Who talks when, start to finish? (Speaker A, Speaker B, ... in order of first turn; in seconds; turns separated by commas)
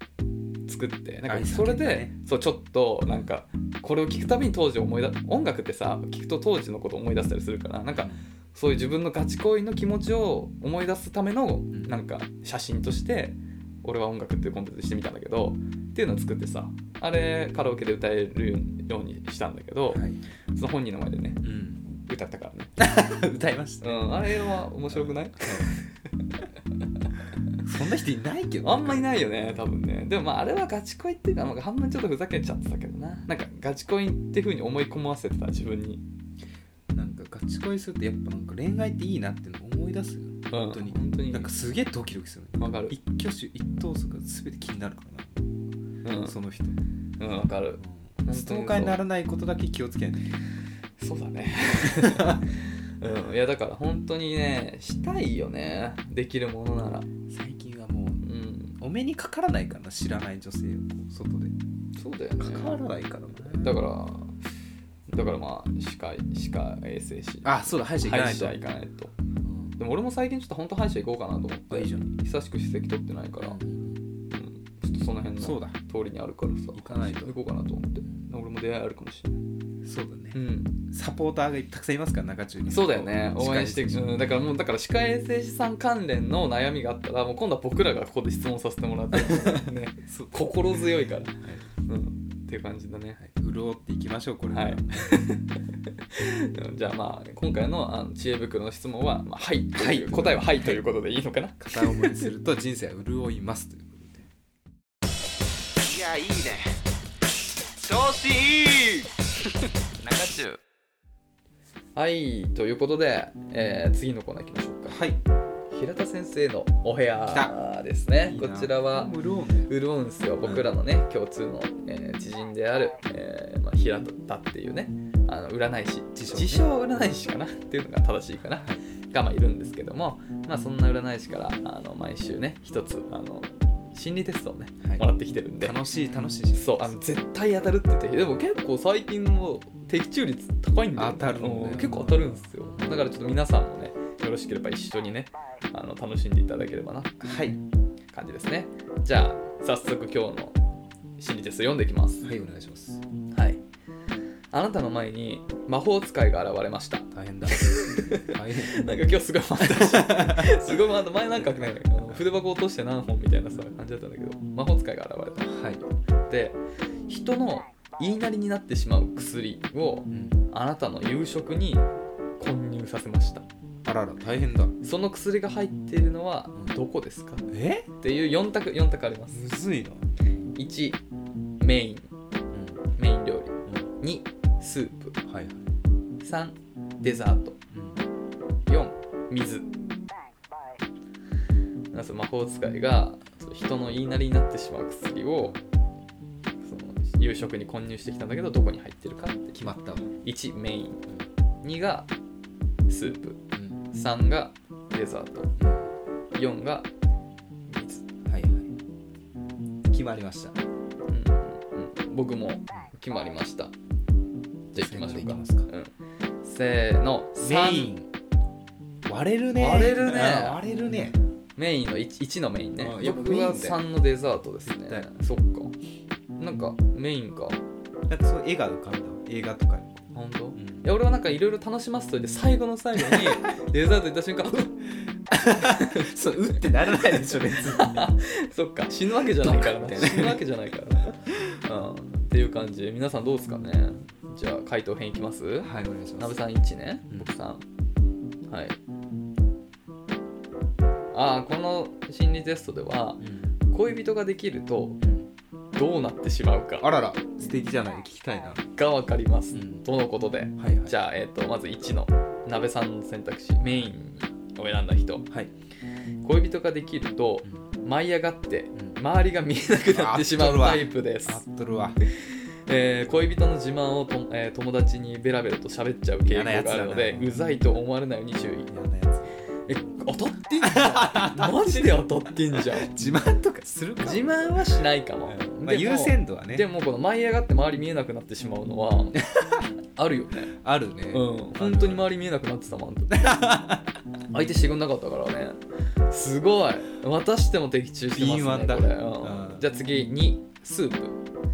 Speaker A: 0.7-20.0, Speaker B: 1.3-2.1, Speaker B: 7.9-8.2, Speaker B: 11.7-11.9, Speaker B: 19.9-20.2, Speaker A: 20.5-22.7, Speaker B: 21.4-21.8, Speaker B: 22.8-24.2, Speaker A: 23.8-25.8, Speaker B: 24.9-25.8, Speaker B: 27.6-29.6, Speaker A: 28.6-36.0, Speaker B: 36.9-45.6, Speaker A: 40.5-41.5, Speaker A: 42.6-42.9, Speaker A: 46.0-46.4, Speaker B: 46.2-46.8, Speaker A: 47.2-49.0, Speaker B: 47.8-50.4, Speaker A: 51.0-57.1, Speaker B: 51.8-52.4, Speaker B: 57.3-58.2, Speaker A: 58.2-58.8, Speaker B: 58.8-61.5, Speaker A: 61.9-62.8, Speaker B: 62.4-63.8, Speaker A: 63.4-64.3, Speaker A: 65.1-69.1, Speaker B: 67.4-68.6, Speaker B: 69.4-69.8, Speaker A: 69.8-73.6, Speaker B: 71.7-72.1, Speaker B: 73.4-74.0, Speaker A: 74.3-79.4, Speaker B: 75.4-75.8, Speaker B: 76.7-77.3, Speaker B: 79.8-84.1, Speaker A: 80.3-80.8, Speaker A: 82.7-93.2, Speaker B: 90.0-90.7, Speaker B: 91.4-91.7, Speaker B: 93.2-95.1, Speaker A: 94.5-102.2, Speaker B: 99.7-100.8, Speaker B: 101.6-104.2, Speaker B: 105.8-106.8, Speaker B: 107.8-109.2, Speaker B: 110.0-110.6, Speaker A: 111.9-115.0, Speaker B: 114.9-115.2, Speaker A: 115.7-119.1, Speaker B: 118.3-119.7, Speaker A: 119.7-135.8, Speaker B: 126.2-126.7, Speaker B: 135.6-137.0, Speaker A: 136.5-147.1, Speaker B: 140.9-143.0, Speaker B: 147.2-147.6, Speaker A: 148.1-150.6, Speaker A: 151.2-152.3, Speaker B: 152.2-153.0, Speaker A: 153.3-153.6, Speaker A: 154.5-165.5, Speaker B: 157.1-158.9, Speaker B: 159.6-160.7, Speaker B: 165.4-165.8, Speaker A: 166.3-171.8, Speaker B: 170.1-170.4, Speaker A: 172.4-173.4, Speaker B: 173.8-174.7, Speaker A: 174.8-177.4, Speaker B: 177.5-177.9, Speaker A: 178.0-179.4, Speaker B: 179.3-180.1, Speaker A: 180.5-181.0, Speaker A: 181.6-182.1, Speaker B: 182.5-182.8, Speaker A: 183.0-185.2, Speaker B: 185.2-185.7, Speaker A: 186.2-187.6, Speaker B: 187.7-188.0, Speaker A: 188.7-189.7, Speaker A: 191.9-195.6, Speaker A: 196.6-201.0, Speaker B: 199.6-200.1, Speaker A: 201.6-202.1, Speaker A: 202.9-203.4, Speaker B: 203.5-203.8, Speaker A: 203.9-205.5, Speaker B: 205.6-205.9, Speaker A: 206.3-206.9, Speaker A: 207.7-208.0, Speaker B: 208.2-208.7, Speaker B: 209.9-210.6, Speaker A: 211.1-213.7, Speaker A: 214.7-217.9, Speaker B: 214.8-215.7, Speaker B: 217.4-218.1, Speaker B: 219.1-221.2, Speaker A: 219.6-220.6, Speaker A: 221.6-225.7, Speaker B: 222.8-223.8, Speaker B: 224.7-225.1, Speaker A: 226.4-227.6, Speaker B: 228.1-230.8, Speaker A: 230.1-234.8, Speaker B: 235.3-238.0, Speaker A: 235.6-247.6, Speaker B: 239.4-240.4, Speaker B: 245.6-246.3, Speaker A: 248.5-248.8, Speaker A: 251.1-255.0, Speaker B: 253.2-253.5, Speaker B: 255.0-255.3, Speaker A: 255.7-256.9, Speaker B: 256.8-258.7, Speaker A: 258.7-265.3, Speaker B: 259.5-259.8, Speaker B: 260.6-260.9, Speaker A: 266.2-271.4, Speaker B: 269.9-272.0, Speaker A: 272.0-278.7, Speaker B: 276.3-277.4, Speaker B: 278.7-279.4, Speaker A: 279.6-282.9, Speaker B: 280.6-286.7, Speaker A: 284.0-289.2, Speaker B: 289.2-289.7, Speaker A: 289.9-290.5, Speaker B: 290.5-292.1, Speaker A: 291.1-293.4, Speaker B: 293.1-294.0, Speaker A: 294.3-301.2, Speaker B: 298.1-299.6